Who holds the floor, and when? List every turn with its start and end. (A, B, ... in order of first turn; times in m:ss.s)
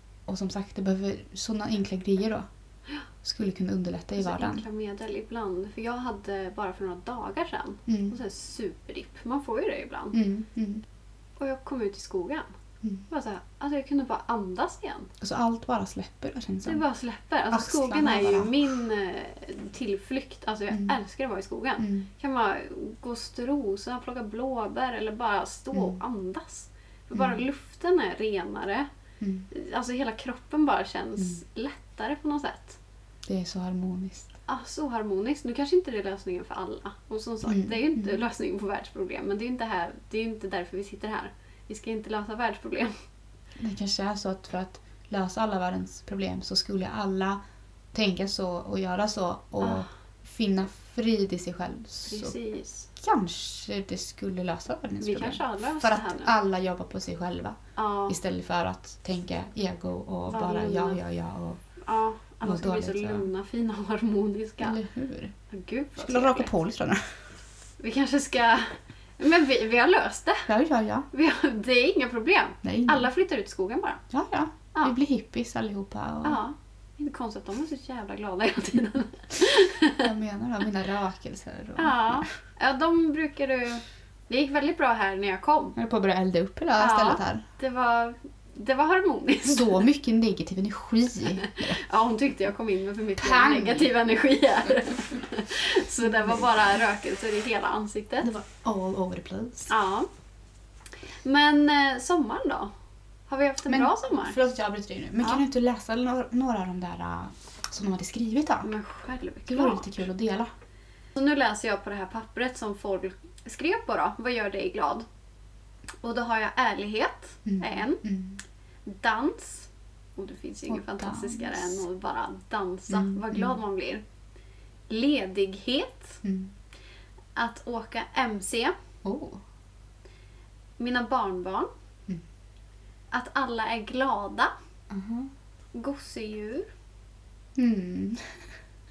0:00.3-0:02.4 A
0:03.2-0:04.6 A
0:04.2-0:10.2 B
0:07.9-0:08.2 A
0:10.1-0:10.8 A
0:11.4-0:12.5 B
0:13.1-0:15.1 B
0:15.2-0:16.8 A
0:16.6-0:28.9 B
0:17.5-0:18.8 A
0:21.8-0:22.1 A
0:25.7-0:26.0 A
0:27.2-0:27.4 A
0:29.2-0:29.5 A
0:29.5-0:32.8 B
0:33.3-0:34.4 A
0:34.5-0:43.0 B
0:37.5-0:38.2 A
0:43.6-0:47.4 A
0:47.9-0:52.4 A
0:49.6-0:49.9 B
0:52.1-0:52.9 B
0:53.0-1:01.6 A
0:55.0-0:56.3 B
0:57.8-0:58.2 B
1:00.3-1:01.0 B
1:01.8-1:04.8 B
1:02.4-1:03.3 A
1:04.6-1:05.3 A
1:05.5-1:06.5 B
1:06.0-1:07.1 A
1:07.8-1:10.5 B
1:10.5-1:11.1 A
1:11.1-1:14.0 B
1:12.6-1:13.1 A
1:14.1-1:16.4 A
1:16.2-1:20.1 B
1:20.0-1:22.3 A
1:21.8-1:25.8 B
1:25.8-1:27.4 A
1:26.8-1:29.8 B
1:29.4-1:31.8 A
1:31.4-1:38.3 B
1:33.2-1:33.9 A
1:36.0-1:36.8 A
1:38.2-1:39.7 A
1:39.7-1:40.1 B
1:41.2-1:42.7 B
1:43.3-1:44.4 B
1:43.7-1:48.7 A
1:48.6-1:50.0 B
1:49.5-1:50.5 A
1:51.2-1:55.1 B
1:56.0-1:58.0 B
1:57.5-1:58.4 A
1:58.9-2:04.0 B
2:00.7-2:01.8 A
2:02.9-2:03.6 A
2:04.9-2:06.2 B
2:06.2-2:06.5 A
2:07.4-2:08.7 B
2:09.0-2:09.4 A
2:10.8-2:11.7 B
2:13.1-2:14.5 B
2:14.9-2:15.3 A
2:15.8-2:16.7 B
2:17.6-2:18.4 A